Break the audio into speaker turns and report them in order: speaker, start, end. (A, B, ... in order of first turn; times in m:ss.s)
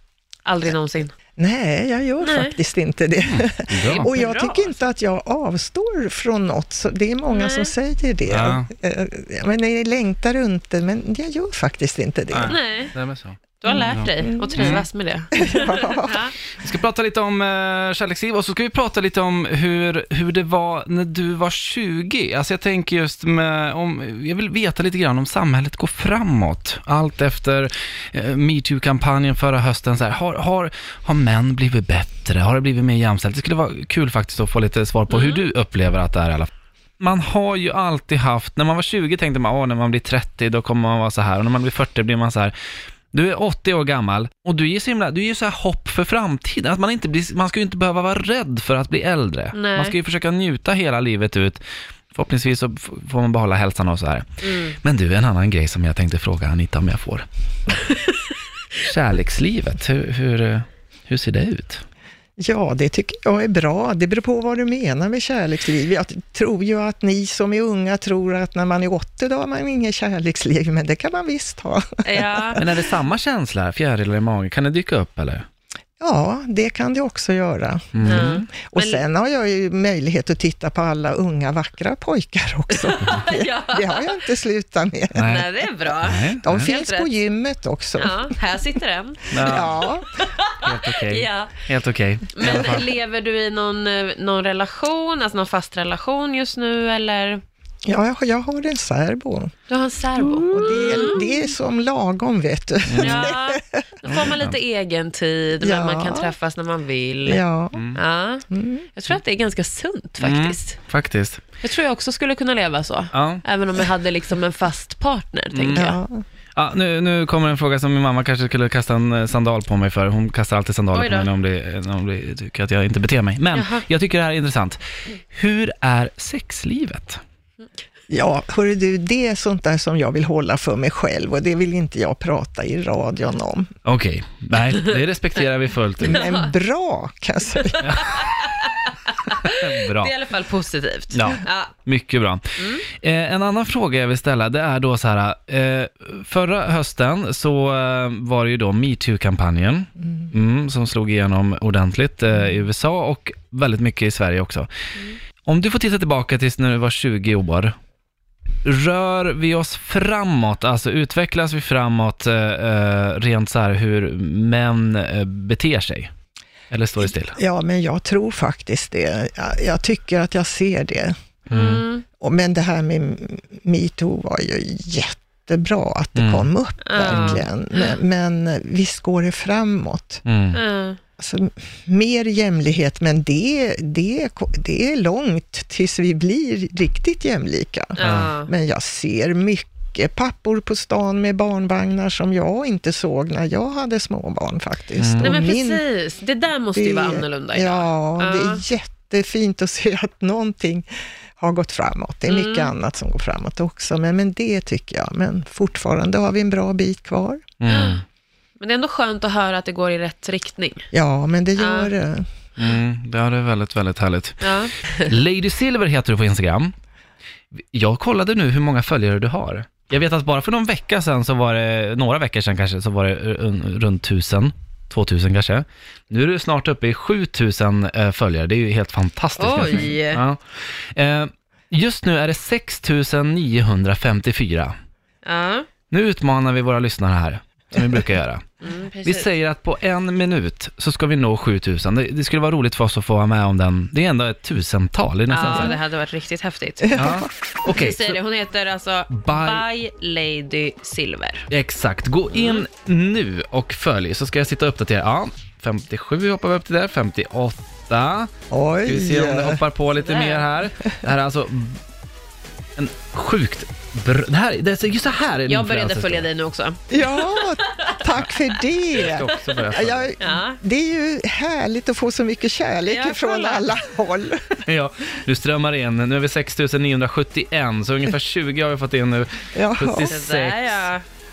0:00.4-0:01.1 A
0:01.4-0:12.6 B
0:02.2-0:02.6 A
0:03.3-0:04.1 C
0:03.9-0:04.8 A
0:07.3-0:07.7 A
0:08.3-0:08.7 C
0:12.3-0:14.8 C
0:12.4-0:12.9 A
0:13.6-0:16.3 A
0:13.6-0:14.8 B
0:15.4-0:16.2 B
0:16.6-0:42.5 C
0:35.1-0:35.5 A
0:43.1-0:51.6 C
0:49.5-0:49.9 A
0:52.1-0:57.2 C
0:54.4-0:54.8 A
0:58.8-1:01.8 C
1:02.4-1:12.6 B
1:12.0-1:12.6 A
1:12.6-1:15.4 C
1:16.0-1:25.3 B
1:17.9-1:18.4 C
1:18.0-1:19.0 A
1:22.7-1:24.2 A
1:25.2-1:26.7 C
1:25.2-1:27.1 A
1:26.4-1:28.3 B
1:28.0-1:31.5 A
1:29.3-1:29.8 C
1:29.4-1:30.1 B
1:30.6-1:32.8 C
1:32.3-1:37.4 A
1:37.8-1:39.5 B
1:39.7-1:41.4 A
1:40.3-1:44.1 B
1:40.4-1:40.7 C
1:42.8-1:43.3 C
1:43.0-1:47.4 A
1:45.6-1:46.3 B
1:47.2-1:47.8 B
1:47.7-1:48.0 C
1:47.9-1:50.8 A
1:48.5-1:48.9 B
1:50.2-1:51.4 C
1:51.6-1:56.0 A
1:53.1-1:53.4 C
1:55.5-1:55.9 C
1:55.7-1:56.2 B
1:56.6-2:07.2 C
2:00.9-2:01.3 A
2:03.5-2:03.8 A
2:08.1-2:13.7 B
2:13.8-2:16.3 C
2:16.0-2:17.9 B
2:16.1-2:16.5 A
2:17.5-2:21.7 A
2:17.8-2:18.2 C
2:19.4-2:20.1 C
2:21.1-2:34.7 C
2:22.6-2:22.8 A
2:35.4-2:37.7 C
2:38.6-2:46.1 C
2:46.7-2:47.4 C
2:47.3-2:51.1 B
2:51.5-2:51.8 C
2:51.5-2:52.0 A
2:52.2-3:00.2 B
2:56.1-2:57.4 C
2:56.9-2:58.0 A
3:00.2-3:00.6 C
3:00.5-3:01.0 A
3:01.2-3:15.8 B
3:08.0-3:08.5 A
3:08.0-3:08.3 C
3:15.0-3:15.4 C
3:15.2-3:18.6 A
3:16.7-3:20.8 B
3:21.4-3:27.4 B
3:22.3-3:22.7 A
3:27.6-3:28.0 C
3:27.7-3:28.0 A
3:28.6-3:30.8 A
3:30.9-3:32.2 B
3:31.6-3:31.9 A
3:32.6-3:36.7 C
3:34.4-3:35.2 A
3:37.7-3:54.7 C
3:49.4-3:50.2 A
3:55.2-3:55.7 A
3:55.9-3:58.4 C
3:58.6-3:59.3 A
3:59.0-4:05.8 C
4:05.3-4:07.1 A
4:05.4-4:05.7 B
4:06.8-4:07.2 B
4:06.9-4:08.2 C
4:07.7-4:11.5 A
4:09.1-4:09.6 C
4:11.5-4:18.3 C
4:12.3-4:12.6 A
4:18.5-4:19.6 B
4:18.8-4:21.8 C
4:19.9-4:20.5 A
4:22.8-4:26.3 C
4:25.5-4:28.4 A
4:26.9-4:34.6 B
4:29.0-4:30.1 C
4:30.2-4:30.6 A
4:32.8-4:33.8 A
4:34.6-4:40.9 C
4:39.5-4:40.1 B
4:40.0-4:41.0 A